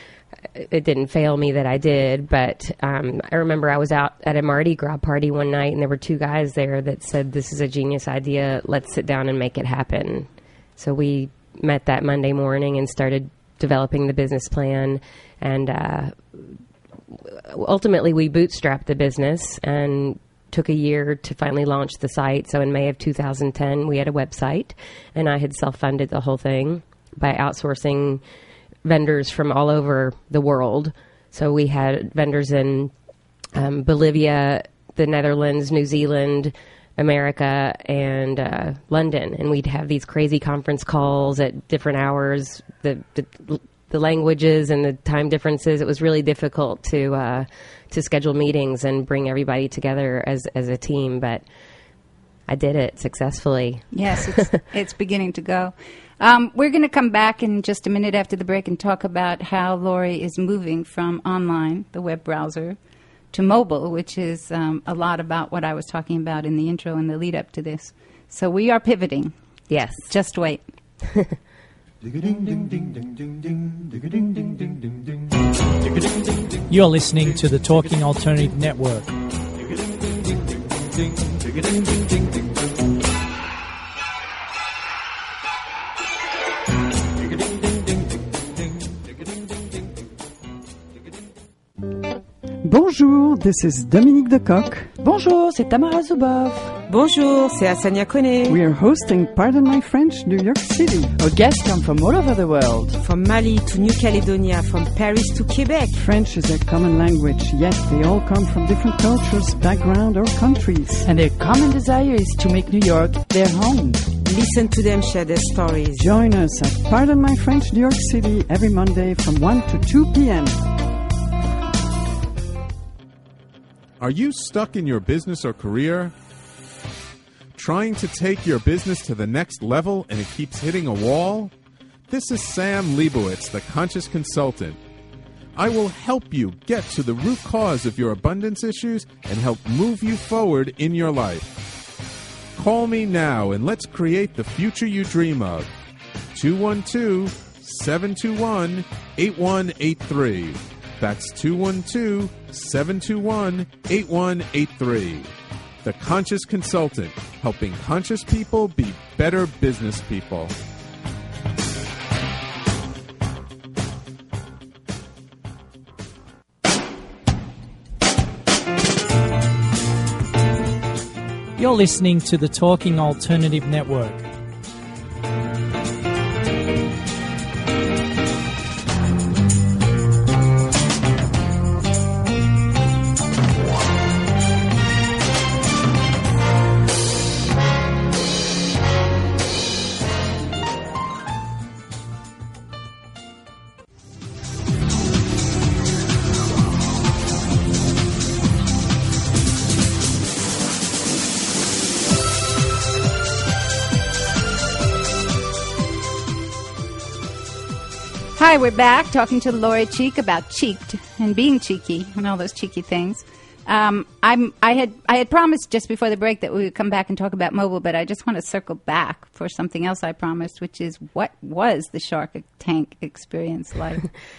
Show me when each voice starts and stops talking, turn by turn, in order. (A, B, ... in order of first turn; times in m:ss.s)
0:00.6-0:16.5 A
0:17.1-0:28.2 A
0:28.8-0:32.9 A
0:33.6-0:51.4 A
0:52.5-0:54.4 A
0:53.9-1:02.8 B
1:03.3-1:09.3 B
1:09.7-1:10.1 A
1:10.0-1:10.6 B
1:16.7-1:19.1 C
1:32.6-1:35.0 D
1:35.1-1:36.6 E
1:36.8-1:38.6 F
1:38.5-1:41.2 D
1:41.2-1:42.9 E
1:43.0-1:46.0 F
1:46.0-1:51.1 D
1:51.0-1:54.1 E
1:54.2-1:56.0 F
1:56.0-2:00.6 D
2:04.0-2:06.1 G
2:07.6-2:11.5 G
2:12.1-2:14.8 G
2:15.6-2:21.5 G
2:22.6-2:25.7 G
2:26.3-2:35.3 G
2:35.8-2:40.5 G
2:51.6-2:54.2 C
3:28.4-3:44.0 B